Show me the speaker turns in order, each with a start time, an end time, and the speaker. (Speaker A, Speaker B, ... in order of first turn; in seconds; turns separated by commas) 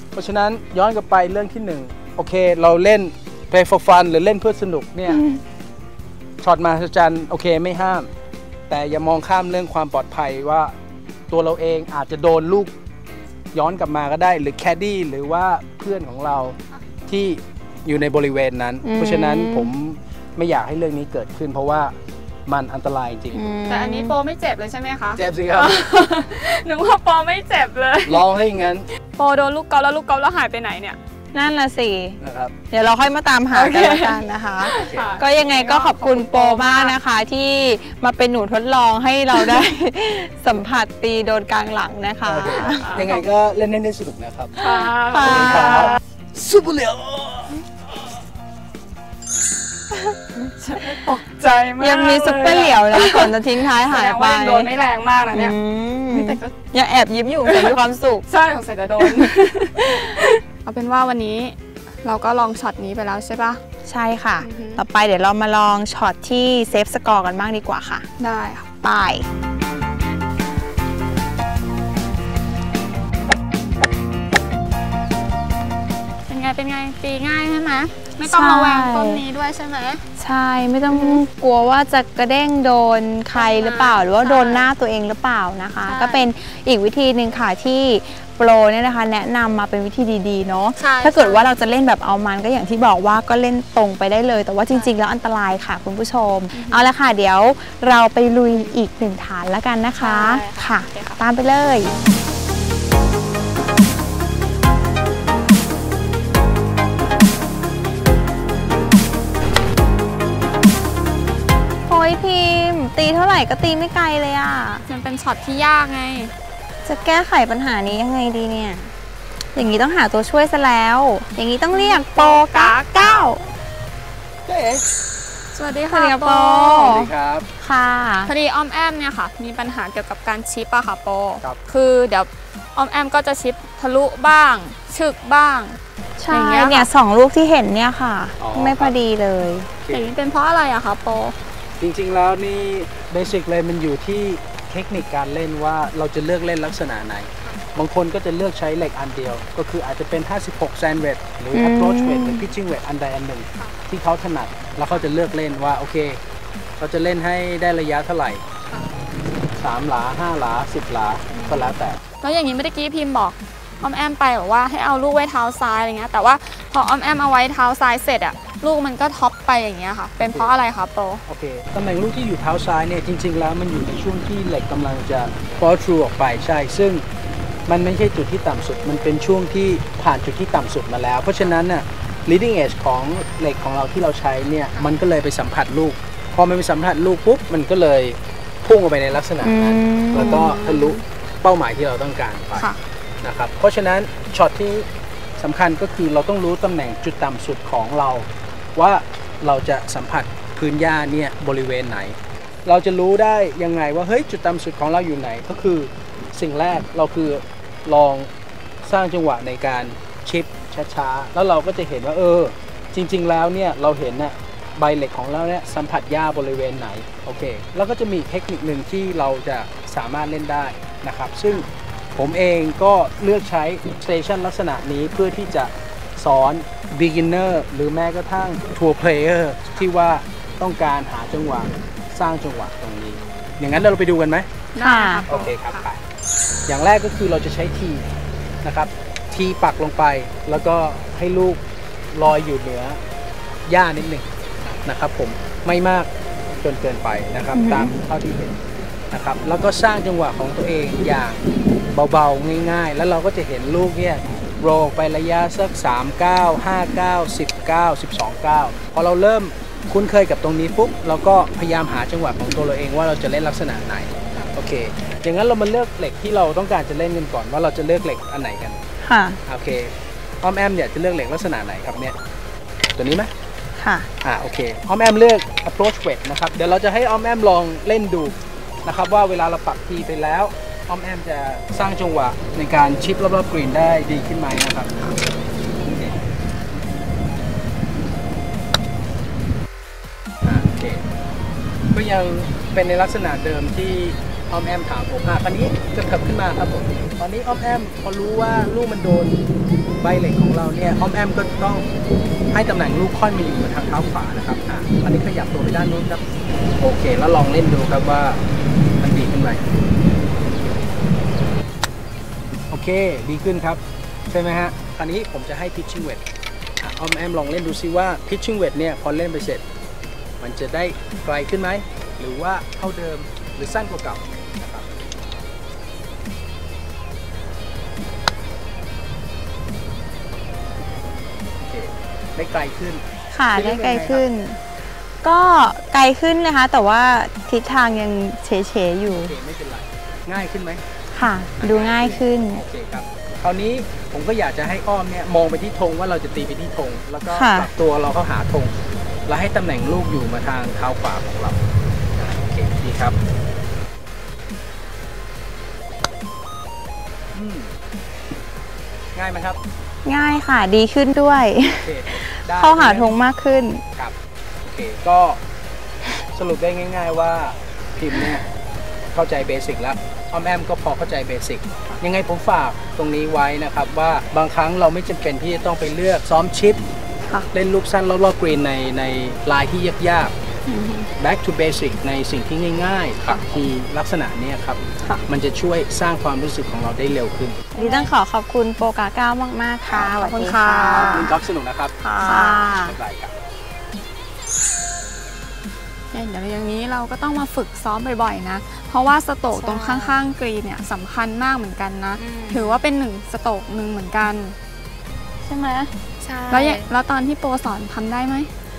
Speaker A: 0.1-5.3, Speaker A: 6.4-8.1, Speaker A: 8.7-10.7, Speaker A: 11.3-12.7, Speaker A: 13.5-21.9, Speaker B: 18.8-19.7, Speaker A: 22.5-23.5, Speaker B: 23.3-24.1, Speaker C: 23.7-28.2, Speaker A: 25.1-25.8, Speaker A: 28.1-28.9, Speaker C: 29.2-31.0, Speaker B: 31.3-32.2, Speaker A: 32.2-32.5, Speaker B: 32.7-43.1, Speaker C: 33.5-37.0, Speaker A: 34.8-35.2, Speaker A: 42.2-44.6, Speaker C: 42.7-43.2, Speaker C: 44.6-46.0, Speaker B: 45.1-46.0, Speaker A: 45.2-47.6, Speaker C: 50.6-55.6, Speaker B: 50.7-51.0, Speaker B: 51.8-54.7, Speaker B: 55.3-58.2, Speaker C: 56.1-56.5, Speaker C: 57.4-63.6, Speaker B: 59.0-60.4, Speaker B: 63.9-68.1, Speaker C: 64.4-64.8, Speaker C: 68.2-68.7, Speaker B: 68.8-69.3, Speaker C: 76.3-80.0, Speaker B: 78.2-79.2, Speaker B: 80.2-101.9, Speaker C: 80.9-81.2, Speaker C: 83.3-84.7, Speaker C: 85.8-86.3, Speaker C: 90.8-91.5, Speaker C: 96.5-96.9, Speaker C: 98.5-98.8, Speaker C: 100.0-101.2, Speaker B: 111.9-114.8, Speaker C: 114.9-116.3, Speaker B: 116.8-118.9, Speaker B: 119.5-123.4, Speaker C: 121.7-123.4, Speaker A: 124.5-124.8, Speaker C: 125.5-127.0, Speaker B: 125.9-128.3, Speaker A: 126.8-127.5, Speaker C: 128.2-136.9, Speaker B: 136.2-139.7, Speaker A: 138.4-139.0, Speaker A: 139.8-140.1, Speaker C: 139.9-141.3, Speaker A: 141.8-156.2, Speaker B: 151.5-152.5, Speaker A: 156.8-158.4, Speaker A: 159.6-162.0, Speaker C: 161.3-171.2, Speaker A: 171.3-177.1, Speaker A: 177.7-192.7, Speaker B: 189.4-190.6, Speaker C: 190.2-191.0, Speaker A: 193.2-194.9, Speaker A: 195.4-208.3, Speaker A: 208.8-234.5, Speaker C: 233.1-233.6, Speaker C: 234.7-235.9, Speaker B: 234.8-235.3, Speaker A: 235.3-236.0, Speaker A: 236.7-238.1, Speaker A: 238.6-241.6, Speaker A: 242.1-243.0, Speaker A: 243.7-244.3, Speaker A: 244.8-246.1, Speaker A: 246.6-248.5, Speaker B: 247.5-248.0, Speaker A: 249.1-268.8, Speaker B: 269.0-269.4, Speaker A: 269.5-272.2, Speaker A: 273.0-273.3, Speaker B: 273.8-274.1, Speaker A: 274.2-285.1, Speaker A: 285.9-286.2, Speaker A: 290.4-291.0, Speaker A: 291.9-299.4, Speaker A: 300.0-301.9, Speaker A: 302.5-306.2, Speaker A: 306.8-308.4, Speaker A: 309.0-309.6, Speaker A: 312.7-316.2, Speaker A: 316.8-319.6, Speaker A: 320.4-324.9, Speaker A: 331.7-334.2, Speaker B: 333.3-334.6, Speaker B: 335.2-339.4, Speaker A: 339.1-340.8, Speaker B: 341.1-342.6, Speaker A: 341.6-348.8, Speaker B: 347.3-347.7, Speaker A: 349.3-351.6, Speaker A: 352.2-353.2, Speaker A: 357.3-357.8, Speaker A: 359.1-359.6, Speaker B: 360.1-363.8, Speaker A: 361.7-363.2, Speaker A: 364.0-365.4, Speaker A: 366.3-368.5, Speaker A: 369.1-376.8, Speaker A: 377.5-380.3, Speaker C: 380.7-381.1, Speaker A: 381.2-387.6, Speaker C: 383.2-383.6, Speaker C: 387.7-388.1, Speaker B: 387.8-391.4, Speaker A: 389.9-390.1, Speaker C: 390.2-391.4, Speaker A: 391.0-392.0, Speaker C: 392.0-392.8, Speaker B: 392.2-393.0, Speaker A: 392.7-393.4, Speaker C: 396.1-404.6, Speaker B: 399.5-400.2, Speaker B: 402.2-402.8, Speaker C: 405.4-405.9, Speaker B: 406.2-406.9, Speaker C: 406.5-408.5